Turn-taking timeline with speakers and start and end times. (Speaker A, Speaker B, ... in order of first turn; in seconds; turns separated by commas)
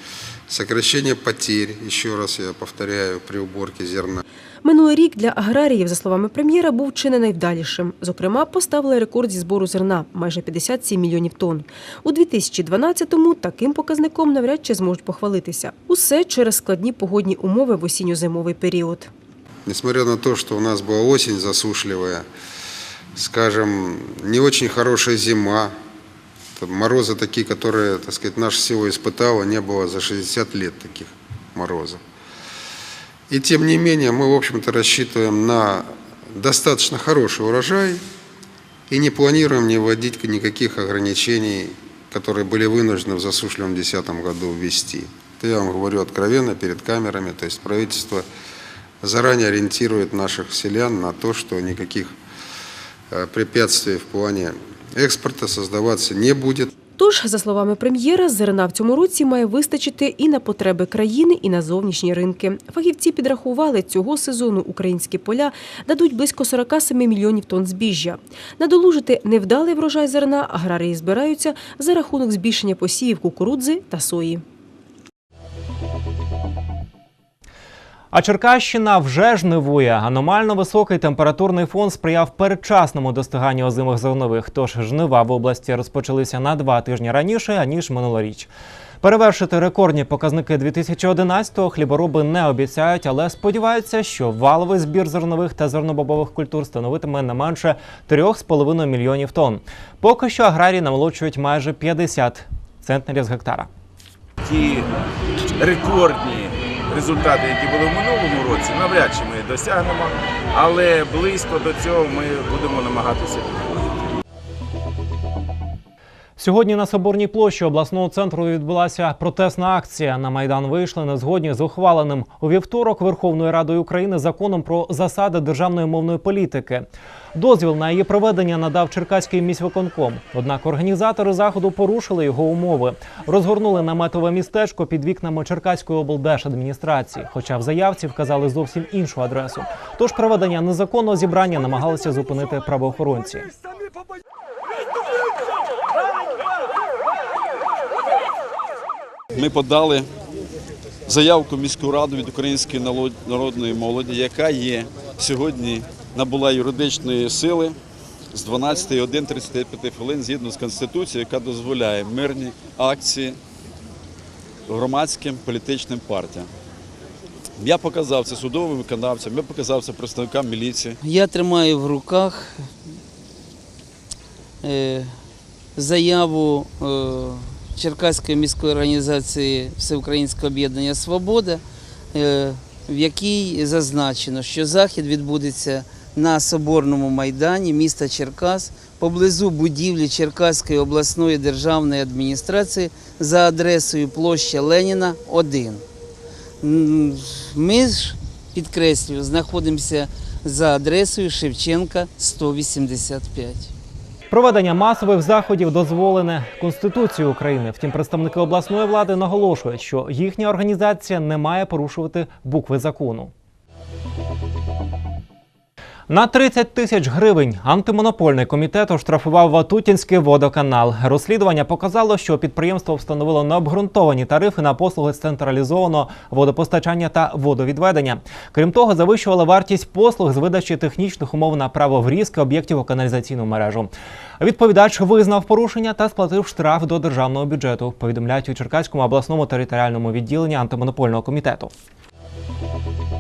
Speaker A: 0.5-4.2, Speaker B: 4.6-19.1, Speaker A: 19.7-22.3, Speaker A: 23.2-25.7, Speaker A: 26.6-32.0, Speaker A: 33.3-38.0, Speaker A: 38.9-48.3, Speaker A: 49.0-52.1, Speaker A: 53.1-56.7, Speaker B: 57.0-74.4, Speaker C: 78.1-88.5, Speaker C: 89.0-103.7, Speaker D: 104.4-104.9, Speaker D: 105.6-114.1, Speaker C: 116.4-143.5, Speaker E: 149.3-150.1, Speaker E: 151.1-157.8, Speaker E: 158.3-163.4, Speaker E: 164.7-166.5, Speaker E: 167.6-171.0, Speaker F: 171.0-172.7, Speaker F: 174.6-175.2, Speaker F: 175.8-181.6, Speaker F: 182.1-195.8, Speaker F: 196.6-203.7, Speaker C: 204.3-213.3, Speaker C: 216.1-241.7